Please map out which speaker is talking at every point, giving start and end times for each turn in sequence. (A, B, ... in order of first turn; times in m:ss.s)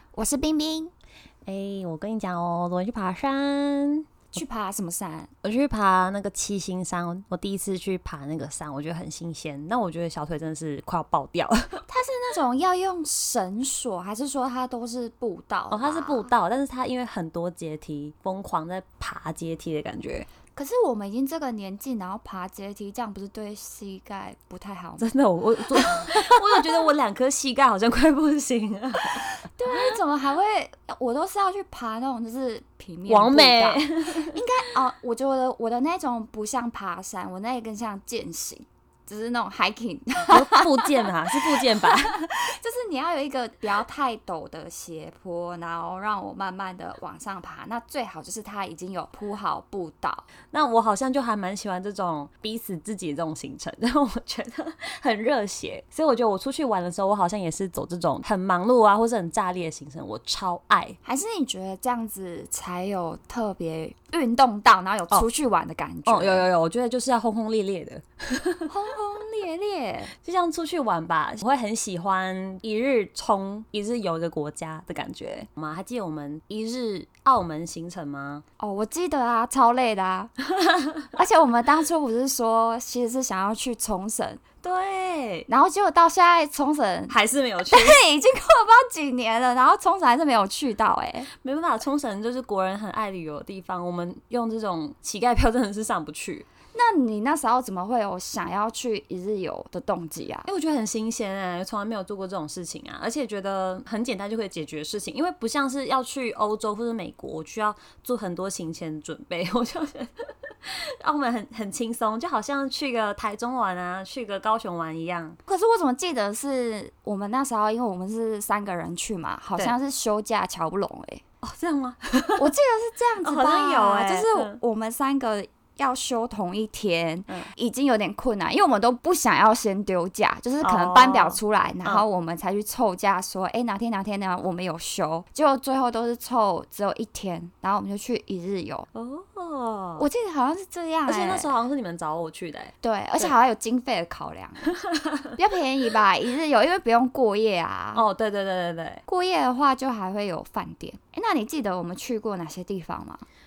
0:00.1-0:00.9 A
0:01.4-0:04.4 B
0:04.3-0:05.3 A
0:05.4-0:11.8 B
0:11.9-0:16.3 A
0:15.7-0:20.3 B
0:20.6-0:25.1 A
0:25.0-0:29.9 B
0:25.7-0:26.8 A
0:29.4-0:40.9 A
0:33.1-0:34.4 B
0:40.3-0:42.2 B
0:41.8-0:50.2 A
0:50.5-1:01.0 B
1:01.0-1:06.5 A
1:06.0-1:08.7 B
1:08.7-1:10.1 A
1:10.2-1:18.4 B
1:18.6-1:20.3 A
1:20.6-1:21.1 B
1:21.2-1:24.4 A
1:24.6-1:25.5 B
1:25.5-1:27.2 A
1:27.1-1:28.0 B
1:27.7-1:31.3 A
1:31.3-1:36.4 B
1:36.7-1:40.5 A
1:40.4-1:55.4 B
1:55.5-2:01.2 A
2:01.4-2:02.5 B
2:02.4-2:18.9 A
2:03.2-2:04.6 B
2:10.6-2:12.0 B
2:18.9-2:20.0 B
2:20.0-2:21.5 A
2:21.1-2:23.3 B
2:22.8-2:24.7 A
2:24.8-2:25.3 B
2:25.4-2:28.0 A
2:27.9-2:29.0 B
2:29.1-2:33.2 A